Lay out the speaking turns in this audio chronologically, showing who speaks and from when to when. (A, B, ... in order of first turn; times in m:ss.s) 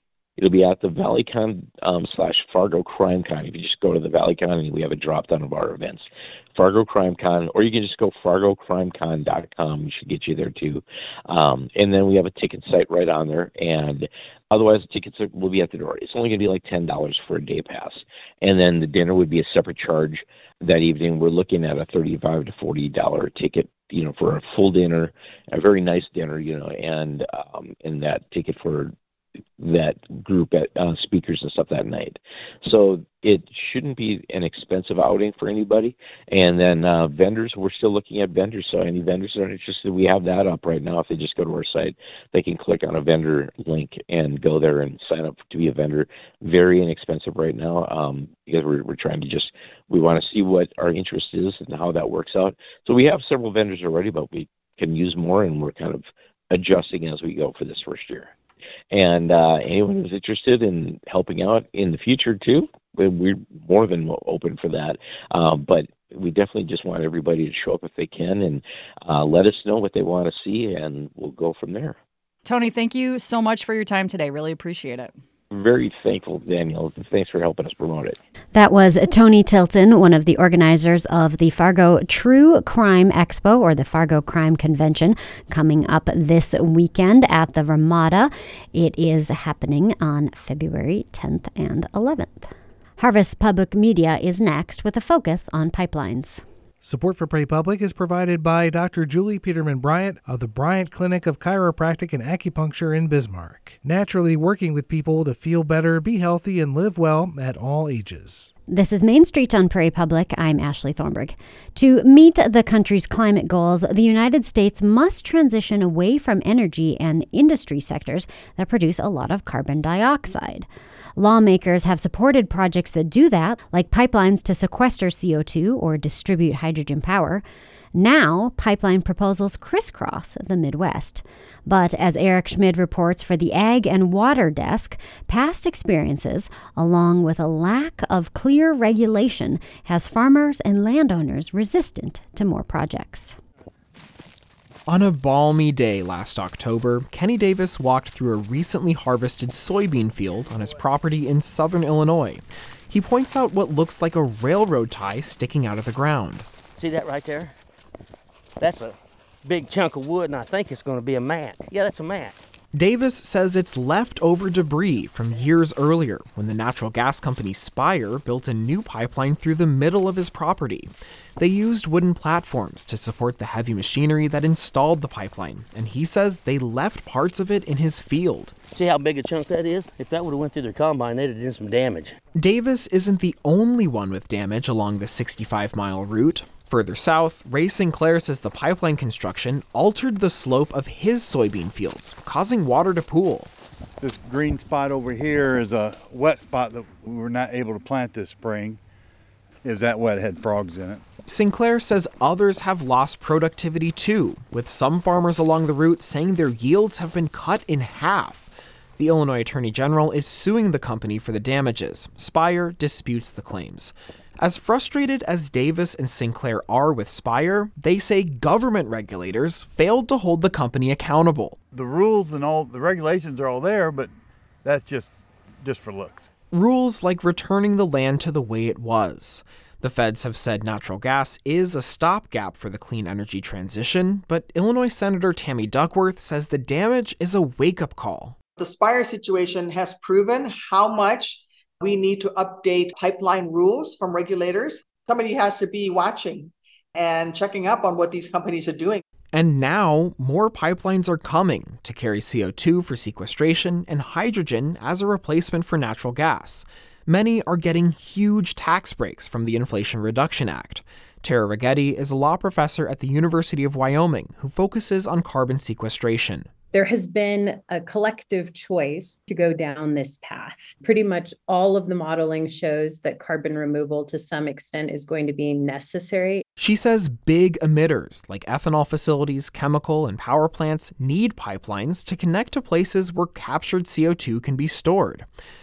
0:00.4-0:28.9 A
0:29.6-0:58.3 A
0:58.9-1:12.0 A
1:12.4-1:15.1 B
1:15.5-1:18.2 A
1:18.5-1:36.4 C
1:36.8-1:48.5 D
1:48.7-2:23.4 C
2:24.9-2:36.5 E
2:36.8-2:37.5 F
2:38.6-2:42.3 F
2:42.7-2:58.6 E
2:58.7-3:02.2 F
3:02.3-3:13.5 E
3:14.0-3:18.8 G
3:19.6-3:21.1 G
3:21.3-3:41.6 E
3:41.7-3:44.1 G
3:44.6-3:46.3 G
3:46.5-3:58.4 E
3:58.6-4:09.0 H
4:09.3-4:26.5 E
4:26.7-4:36.4 I
4:36.6-4:45.3 E